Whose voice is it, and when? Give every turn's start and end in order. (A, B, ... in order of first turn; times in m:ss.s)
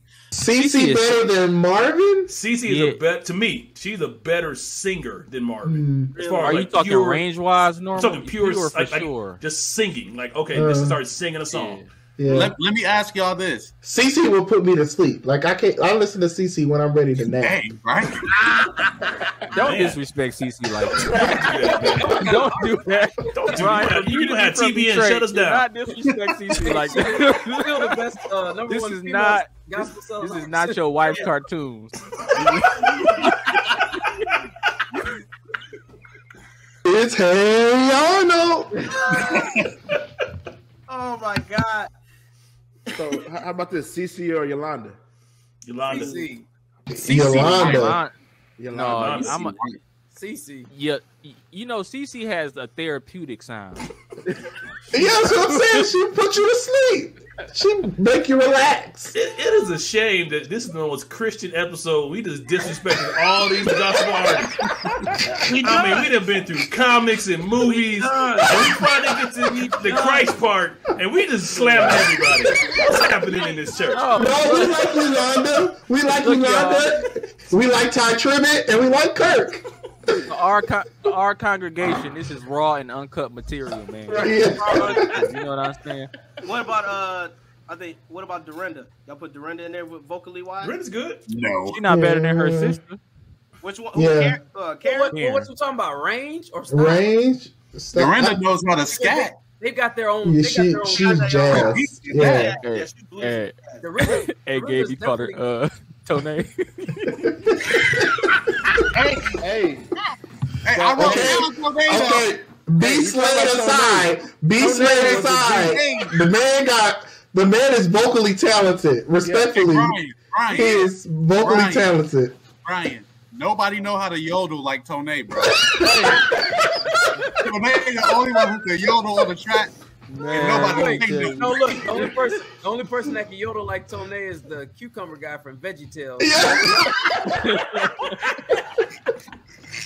0:00.3-0:02.3 A
0:00.5-0:01.2 B
0:02.3-0:07.2 C
0:02.6-0:03.0 B
0:05.6-0:06.1 A
0:06.1-0:06.6 D
0:06.4-0:09.4 B
0:07.9-0:11.8 C
0:10.5-0:11.0 A
0:11.5-0:11.9 B
0:12.2-0:12.5 A
0:12.2-0:13.7 E
0:13.8-0:17.6 A
0:17.2-0:18.3 E
0:19.5-0:28.0 B
0:19.5-0:20.0 C
0:21.0-0:22.3 C
0:21.4-0:22.9 F
0:23.3-0:25.7 C
0:26.6-0:30.8 F
0:28.7-0:33.4 B
0:31.0-0:31.3 D
0:36.8-0:38.8 A
0:38.9-0:39.4 D
0:39.1-0:39.7 E
0:40.9-0:41.9 D
0:42.9-0:45.0 G
0:45.6-0:46.3 C
0:45.9-0:46.5 F
0:46.9-0:48.0 A
0:47.0-0:48.0 E
0:47.3-0:48.1 B
0:48.6-0:49.3 G
0:48.7-0:49.6 B
0:48.8-0:49.4 C
0:49.3-0:49.8 E
0:50.1-0:50.7 F
0:50.7-0:53.9 B
0:54.9-0:59.1 A
0:55.2-0:55.8 B
0:59.1-1:04.6 C
1:05.4-1:14.2 C
1:09.8-1:10.3 B
1:11.5-1:12.1 B
1:13.9-1:15.0 B
1:14.1-1:19.6 A
1:16.1-1:16.9 B
1:20.3-1:26.1 B
1:24.2-1:25.0 A
1:24.6-1:25.3 D
1:26.4-1:30.7 D
1:30.6-1:31.2 C
1:31.3-1:31.8 E
1:31.7-1:33.0 B
1:31.9-1:32.8 A
1:33.6-1:35.1 D
1:33.9-1:34.4 A
1:34.8-1:37.1 F
1:35.1-1:35.5 B
1:36.7-1:38.4 A
1:37.9-1:39.4 E
1:38.9-1:41.6 F
1:40.2-1:42.6 A
1:40.9-1:43.8 D
1:41.5-1:42.5 E
1:42.6-1:47.3 B
1:43.8-1:45.4 F
1:47.4-1:47.8 A
1:48.9-1:49.4 E
1:49.0-1:49.9 G
1:50.6-1:52.3 E
1:50.7-1:51.4 G
1:51.0-2:00.0 A
1:52.8-1:55.7 G
1:54.7-1:56.2 E
1:59.2-1:59.6 G
1:59.5-2:01.9 E
2:00.5-2:02.4 A
2:02.6-2:05.8 E
2:05.6-2:06.6 A
2:07.4-2:09.7 E
2:10.1-2:12.1 B
2:10.3-2:11.8 E
2:10.5-2:16.9 F
2:16.2-2:17.4 A
2:17.2-2:18.3 B